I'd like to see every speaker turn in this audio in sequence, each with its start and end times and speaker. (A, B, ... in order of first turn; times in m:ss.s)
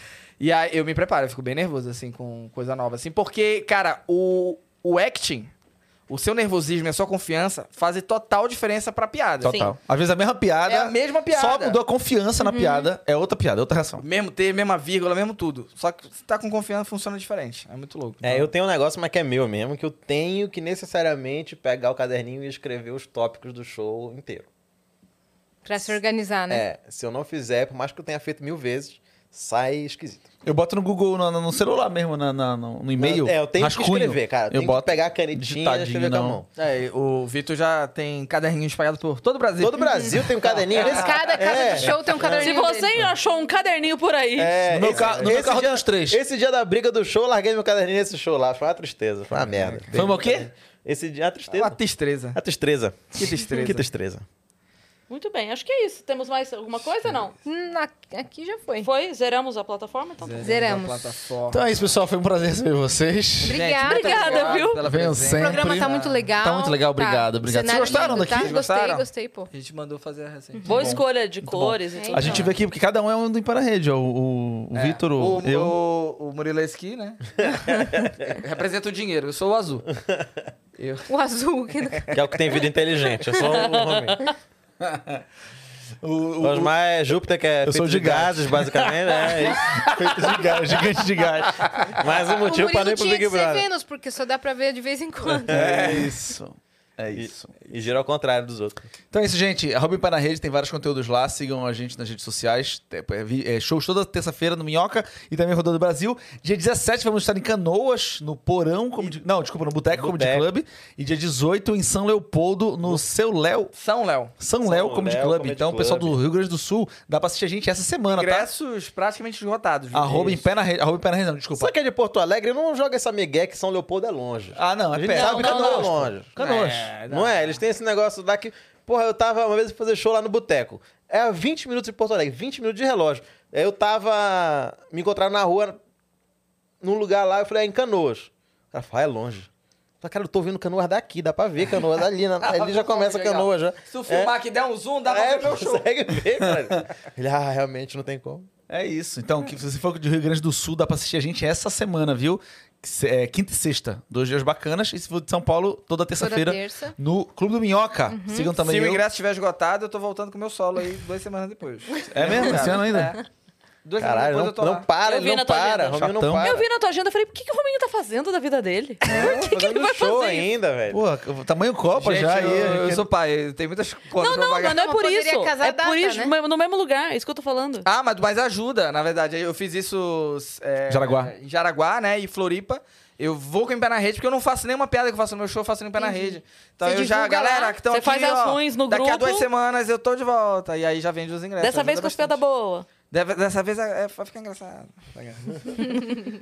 0:00.4-0:05.5 A
0:06.1-0:09.7 A
0:09.4-0:09.7 B
0:09.4-0:14.0 C
0:10.7-0:11.8 A
0:12.4-0:12.9 D
0:14.0-0:18.5 A
0:18.2-0:24.5 E
0:25.6-0:26.6 D
0:26.5-0:30.3 E
0:30.4-0:36.4 C
0:33.0-0:36.5 E
0:36.6-0:41.2 A
0:39.6-0:42.6 E
0:39.9-0:43.0 D
0:42.4-0:44.6 B
0:44.4-0:51.8 E
0:44.7-0:46.2 C
0:44.9-0:45.4 A
0:49.6-0:50.2 A
0:49.9-0:50.5 C
0:51.5-0:52.4 A
0:52.4-0:54.2 E
0:53.1-0:53.9 A
0:55.1-0:57.4 B
0:57.4-0:58.9 D
0:58.8-1:00.6 B
1:00.2-1:01.6 A
1:00.4-1:01.1 D
1:01.5-1:03.6 C
1:03.4-1:04.6 D
1:03.5-1:06.2 A
1:03.8-1:04.8 B
1:04.8-1:08.6 C
1:05.3-1:09.5 D
1:07.7-1:10.7 A
1:10.6-1:10.9 D
1:10.6-1:12.4 B
1:10.7-1:15.8 C
1:12.0-1:12.5 D
1:12.2-1:12.5 A
1:14.7-1:17.2 A
1:17.4-1:18.4 E
1:18.3-1:19.9 A
1:19.9-1:20.4 E
1:20.8-1:21.1 A
1:21.1-1:22.2 D
1:22.1-1:24.3 E
1:23.4-1:24.4 B
1:24.8-1:25.2 C
1:26.0-1:26.7 C
1:26.4-1:30.3 E
1:27.6-1:32.0 C
1:32.0-1:33.7 E
1:32.3-1:35.9 D
1:35.5-1:37.5 C
1:35.5-1:36.2 E
1:37.2-1:38.9 E
1:39.1-1:53.7 C
1:49.9-1:50.5 E
1:53.8-1:54.3 A
1:54.4-1:58.5 C
1:54.6-1:56.2 E
1:58.1-2:00.4 A
1:59.9-2:01.7 C
2:01.6-2:06.4 E
2:04.6-2:06.9 C
2:05.1-2:05.9 B
2:06.4-2:07.6 A
2:07.0-2:15.8 E
2:16.8-2:19.5 E
2:20.0-2:24.4 E
2:22.4-2:25.9 A
2:25.0-2:28.5 E
2:28.7-2:39.0 C
2:36.2-2:37.0 D
2:38.1-2:38.5 D
2:38.6-2:43.2 A
2:42.1-2:43.2 C
2:43.8-2:44.9 A
2:44.0-2:46.6 E
2:45.0-2:50.5 B
2:46.0-2:46.5 C
2:49.1-2:49.4 A
2:49.1-2:51.0 E
2:50.9-2:53.0 C
2:52.0-2:54.8 A
2:54.2-2:57.9 B
2:54.7-2:56.3 D
2:57.8-3:12.4 A
3:00.9-3:01.3 C
3:06.0-3:07.8 D
3:07.9-3:09.5 B
3:11.6-3:12.9 B
3:13.1-3:16.1 A